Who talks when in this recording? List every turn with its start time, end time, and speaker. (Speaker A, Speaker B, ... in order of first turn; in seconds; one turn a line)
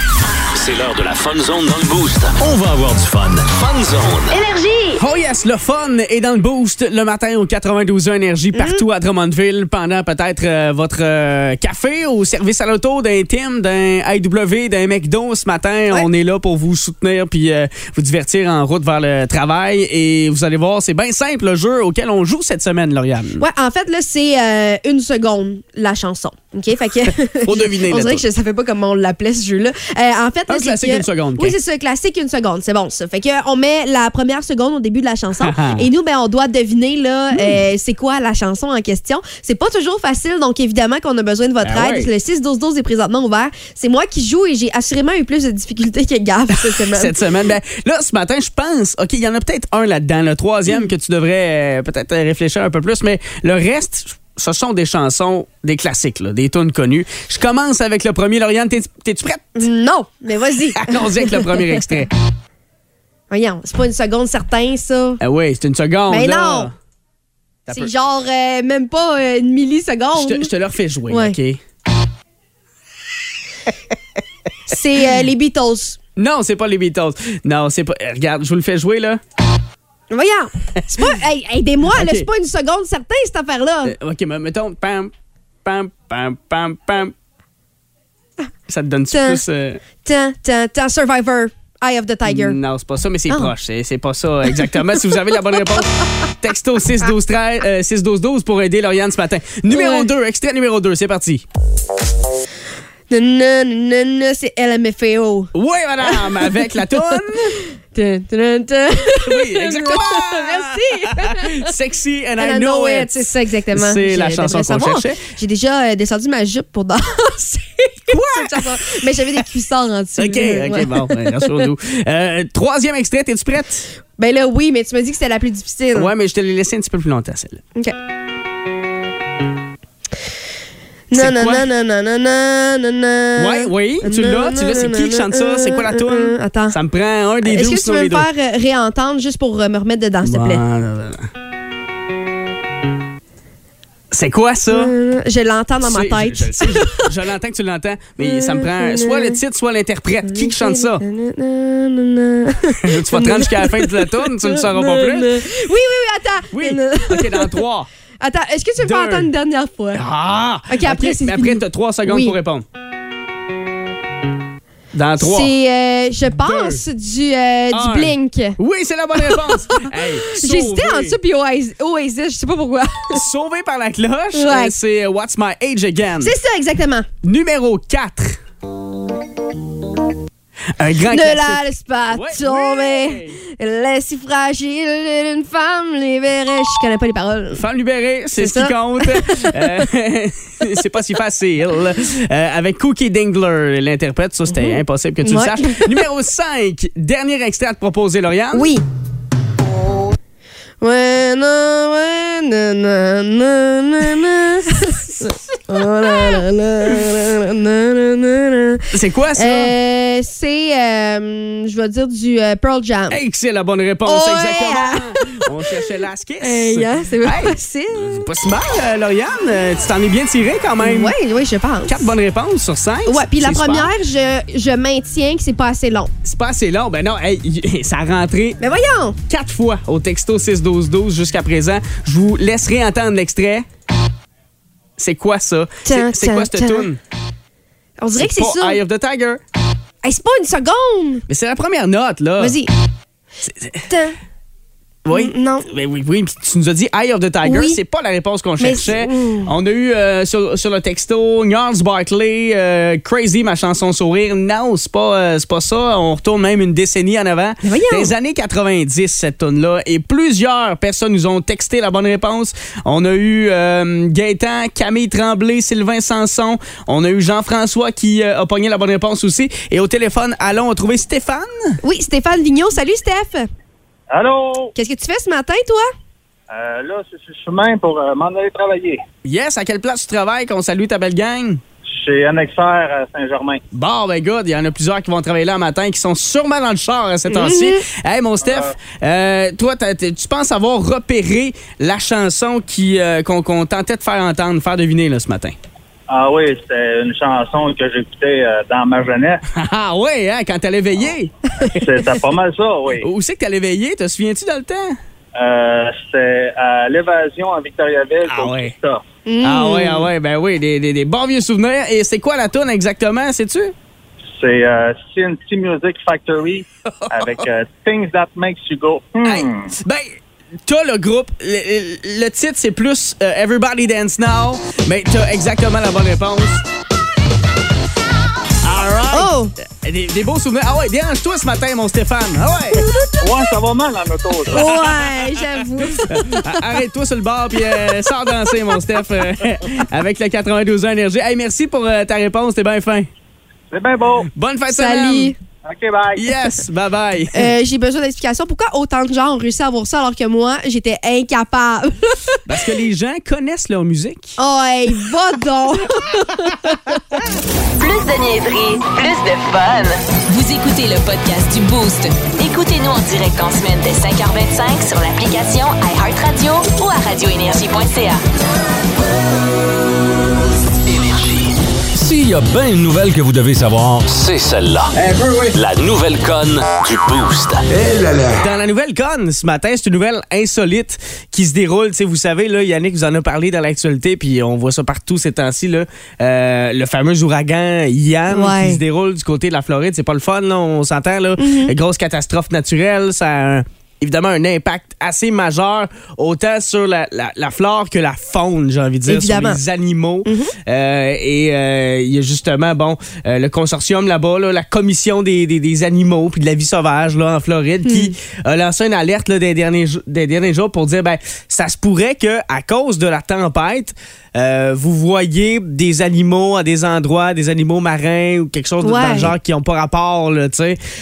Speaker A: 0.5-4.4
Speaker B: 4.3-5.0
Speaker C: 5.0-23.4
Speaker B: 8.5-8.8
Speaker B: 23.4-47.2
Speaker C: 27.1-28.2
Speaker C: 30.5-31.6
Speaker C: 35.4-35.9
Speaker C: 37.3-37.6
Speaker C: 41.6-42.1
Speaker C: 46.6-59.6
Speaker B: 59.5-61.8
Speaker C: 60.7-62.1
Speaker B: 63.3-65.2
Speaker C: 65.2-66.7
Speaker B: 66.1-66.7
Speaker C: 67.7-67.9
Speaker B: 67.7-70.5
Speaker C: 70.1-71.6
Speaker B: 71.1-71.4
Speaker B: 74.7-76.0
Speaker C: 76.2-79.2
Speaker B: 80.1-84.0
Speaker C: 80.8-81.2
Speaker C: 81.9-82.3
Speaker C: 83.8-85.1
Speaker C: 85.6-87.1
Speaker C: 88.7-89.8
Speaker B: 89.1-89.4
Speaker B: 90.0-92.6
Speaker C: 92.2-101.4
Speaker B: 99.7-100.1
Speaker B: 103.1-106.6
Speaker C: 105.5-107.6
Speaker B: 107.2-111.7
Speaker C: 109.2-115.2
Speaker B: 112.4-121.6
Speaker C: 118.1-119.4
Speaker C: 120.2-123.9
Speaker B: 124.2-126.1
Speaker C: 125.9-127.6
Speaker B: 131.1-136.8
Speaker C: 131.1-131.7
Speaker C: 133.3-138.3
Speaker B: 137.4-140.6
Speaker C: 140.2-141.3
Speaker C: 144.1-144.9
Speaker B: 144.7-147.1
Speaker C: 145.8-151.0
Speaker B: 148.2-149.4
Speaker B: 150.2-157.6
Speaker C: 152.8-155.5
Speaker C: 156.5-157.9
Speaker B: 158.2-160.0
Speaker C: 158.8-159.3
Speaker C: 159.9-162.7
Speaker B: 160.7-162.3
Speaker C: 164.9-165.5
Speaker B: 165.2-168.6
Speaker C: 166.4-166.8
Speaker C: 167.7-171.2
Speaker B: 169.1-173.2
Speaker C: 173.1-176.3
Speaker B: 174.3-174.7
Speaker B: 176.2-177.1
Speaker C: 177.2-178.4
Speaker C: 180.8-183.4
Speaker B: 181.1-187.6
Speaker C: 187.5-198.7
Speaker B: 188.3-189.8
Speaker B: 194.5-196.0
Speaker B: 198.5-198.8
Speaker B: 200.8-213.2
Speaker C: 206.1-206.3
Speaker C: 208.9-209.7
Speaker C: 213.1-221.1
Speaker B: 214.1-215.5
Speaker B: 216.4-218.2
Speaker B: 220.8-222.1
Speaker C: 221.8-223.9
Speaker B: 223.1-226.1
Speaker C: 226.2-228.6
Speaker B: 228.6-229.2
Speaker C: 229.3-233.7
Speaker C: 235.0-237.0
Speaker B: 235.8-236.9
Speaker B: 238.0-238.8
Speaker C: 238.1-239.4
Speaker B: 240.0-241.2
Speaker C: 241.3-242.6
Speaker B: 242.4-242.7
Speaker C: 243.4-243.9
Speaker B: 243.9-244.2
Speaker C: 245.0-271.8
Speaker B: 245.1-245.7
Speaker B: 247.4-247.8
Speaker B: 248.6-249.5
Speaker B: 257.6-258.1
Speaker B: 271.8-273.5
Speaker D: 274.1-274.7
Speaker B: 274.8-275.9
Speaker D: 276.5-279.0
Speaker C: 279.2-281.6
Speaker D: 281.9-283.6
Speaker C: 283.7-295.6
Speaker B: 287.3-287.9
Speaker D: 288.4-288.7
Speaker D: 296.1-299.4
Speaker C: 299.5-301.3
Speaker D: 301.6-303.1
Speaker C: 303.0-305.0
Speaker D: 305.4-309.0
Speaker C: 308.2-308.8
Speaker B: 309.2-310.1
Speaker C: 309.4-313.7
Speaker D: 314.2-319.7
Speaker C: 316.9-317.4
Speaker C: 319.2-326.6
Speaker C: 328.6-332.8
Speaker B: 329.1-329.5
Speaker B: 332.7-333.2
Speaker D: 333.2-334.7
Speaker B: 334.5-336.7
Speaker C: 334.6-335.4
Speaker C: 336.0-343.1
Speaker B: 337.6-339.0
Speaker D: 343.7-344.3
Speaker C: 344.3-345.3
Speaker B: 344.7-345.4
Speaker D: 345.6-346.3
Speaker C: 346.1-347.5
Speaker B: 347.3-352.4
Speaker C: 352.4-354.4
Speaker B: 354.4-357.2
Speaker E: 357.8-368.2
Speaker A: 370.9-378.4
Speaker C: 374.9-375.5
Speaker C: 378.3-420.8
Speaker B: 388.3-388.8
Speaker B: 391.4-391.7
Speaker B: 399.1-399.6
Speaker B: 400.2-400.5
Speaker B: 407.8-408.1
Speaker B: 418.8-419.3